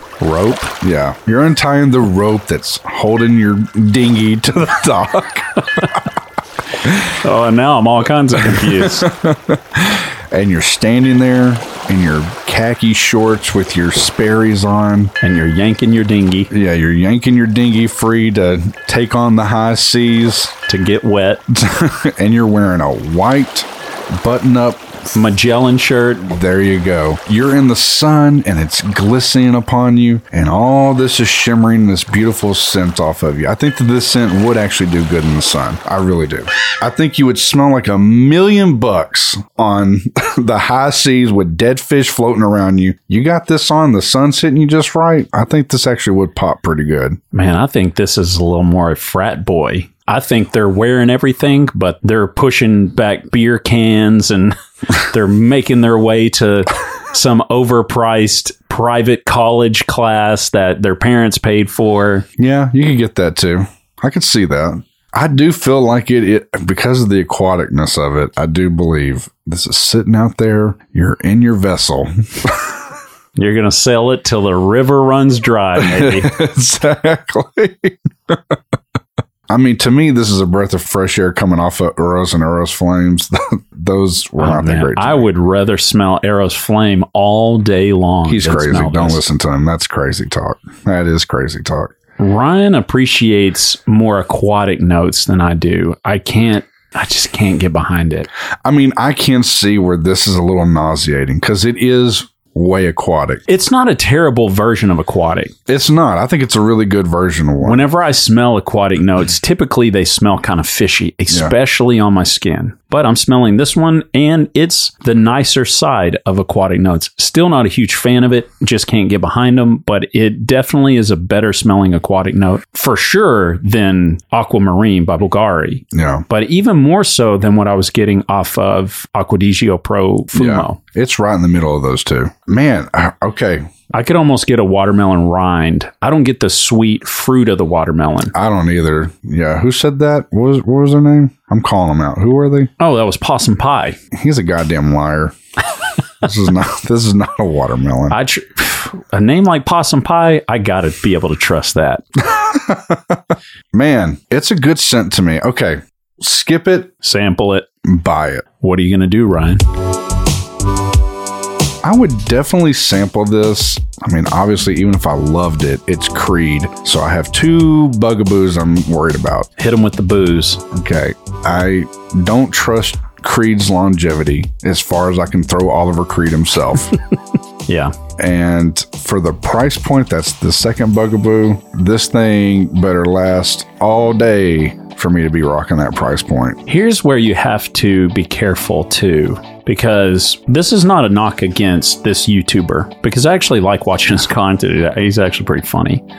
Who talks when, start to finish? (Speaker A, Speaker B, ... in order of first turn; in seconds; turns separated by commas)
Speaker A: 0.2-0.7, Speaker B: 0.8-6.0, Speaker A: 7.0-9.1, Speaker B: 8.4-15.1, Speaker A: 15.2-16.5, Speaker B: 16.5-20.5, Speaker A: 20.7-21.4, Speaker B: 21.5-24.9, Speaker A: 25.1-26.3, Speaker B: 26.3-47.2, Speaker A: 47.3-62.2, Speaker B: 62.4-72.8, Speaker A: 73.3-76.3, Speaker B: 75.8-78.5, Speaker B: 79.5-85.3, Speaker A: 84.4-89.2, Speaker B: 88.2-91.9, Speaker A: 92.2-98.3, Speaker B: 98.6-103.4, Speaker A: 103.5-105.5, Speaker B: 105.7-107.8, Speaker A: 107.6-130.8, Speaker B: 125.9-126.2, Speaker B: 130.3-133.7, Speaker A: 133.9-138.3, Speaker B: 138.3-142.7, Speaker A: 142.8-144.0, Speaker B: 144.1-145.3, Speaker B: 146.2-148.2, Speaker A: 148.1-152.0, Speaker B: 152.3-153.2, Speaker B: 153.7-156.9, Speaker A: 157.0-157.7, Speaker B: 157.8-158.4, Speaker A: 158.6-159.6, Speaker B: 161.8-169.5, Speaker A: 169.6-170.6, Speaker B: 170.7-176.9, Speaker A: 177.7-177.9, Speaker B: 178.2-186.6, Speaker A: 186.7-196.0